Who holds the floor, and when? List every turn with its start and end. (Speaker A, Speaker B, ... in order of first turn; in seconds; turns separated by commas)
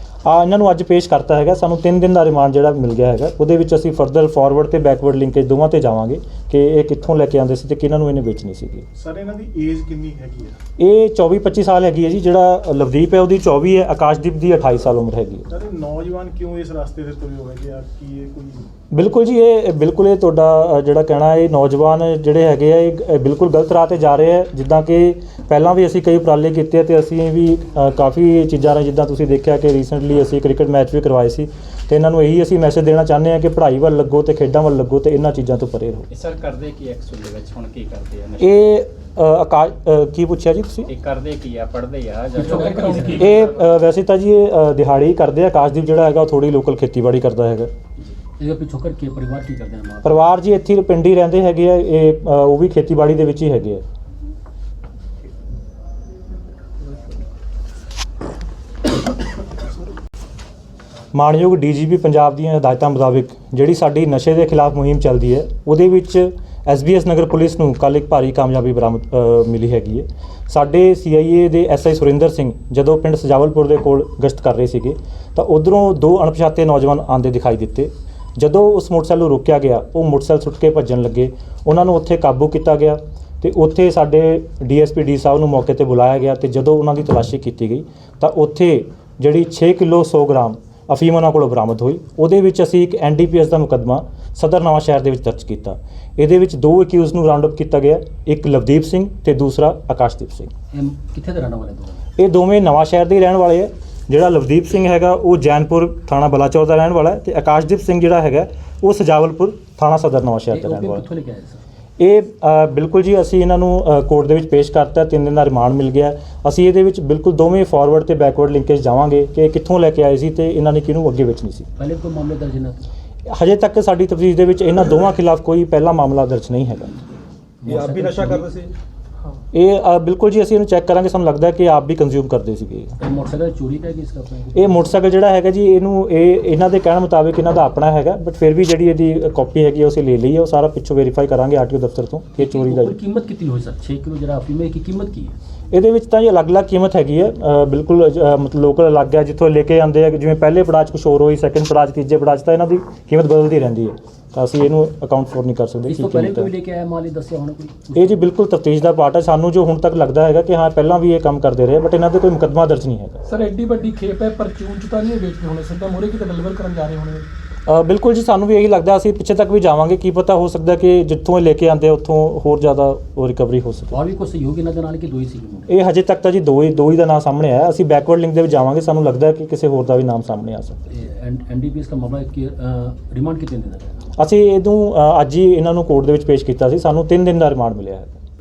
Speaker A: 0.2-8.8, Speaker B: 8.9-10.6, Speaker A: 10.8-15.5, Speaker B: 15.5-18.6, Speaker A: 18.9-36.1, Speaker C: 36.1-38.7, Speaker A: 38.4-40.9, Speaker C: 40.9-43.6, Speaker D: 42.4-43.2, Speaker E: 42.4-43.2, Speaker A: 43.1-47.7, Speaker D: 48.4-50.2, Speaker A: 50.0-53.8, Speaker A: 61.1-100.5, Speaker D: 100.7-102.0, Speaker A: 102.2-111.0, Speaker D: 110.5-111.6, Speaker A: 112.0-121.7, Speaker D: 121.8-122.9, Speaker A: 123.3-126.9, Speaker D: 127.6-128.5, Speaker A: 127.7-128.7, Speaker A: 129.5-132.9, Speaker D: 133.0-134.8, Speaker A: 134.5-143.0, Speaker D: 142.4-145.3, Speaker A: 145.7-156.5, Speaker D: 155.8-158.2, Speaker A: 157.9-163.2, Speaker E: 163.3-167.2, Speaker A: 167.7-173.9, Speaker D: 173.9-175.8, Speaker A: 175.7-180.8, Speaker D: 180.9-184.0, Speaker A: 184.2-188.2